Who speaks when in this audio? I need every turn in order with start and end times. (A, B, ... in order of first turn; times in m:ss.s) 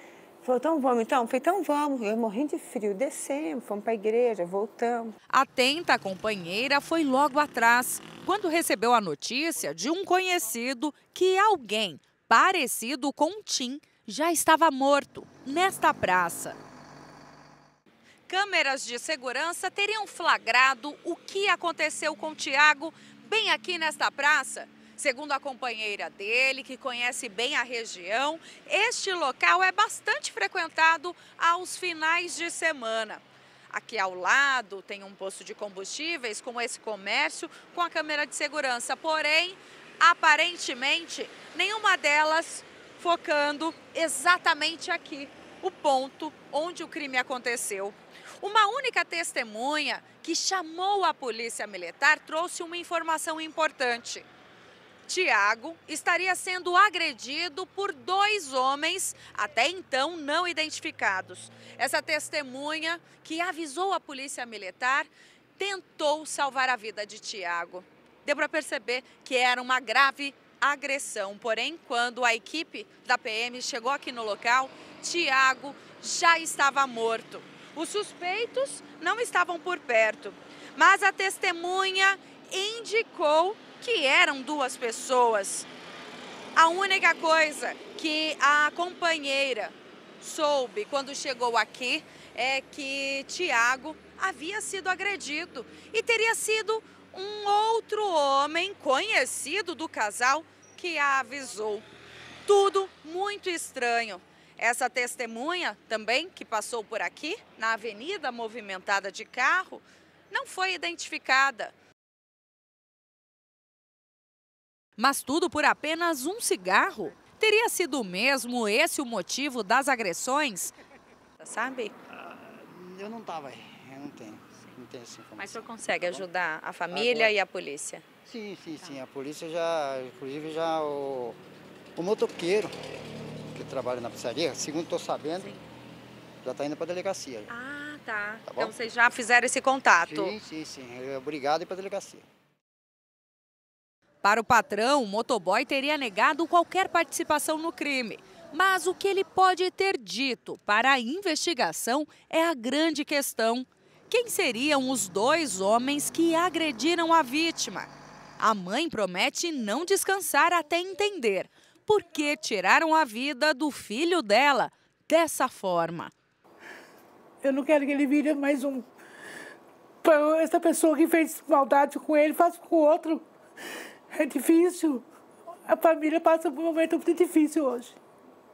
0:00.4-0:05.1 A
0:05.3-0:16.6 B
0:18.3-0:54.3 B
0:55.1-1:25.7 B
1:26.6-1:41.8 B
1:42.4-1:51.7 B
1:55.0-2:00.7 B
2:01.4-2:02.0 B
2:02.1-2:06.3 C
2:05.4-2:08.0 B
2:06.9-2:07.4 C
2:08.2-2:11.4 C
2:12.0-2:12.7 C
2:13.5-2:15.5 C
2:16.4-2:17.5 C
2:17.5-2:20.3 B
2:18.5-2:18.7 C
2:20.0-2:22.2 C
2:24.2-2:46.1 B
2:47.4-2:48.9 D
2:50.0-2:53.2 D
2:54.1-2:55.0 D
2:55.7-2:58.0 D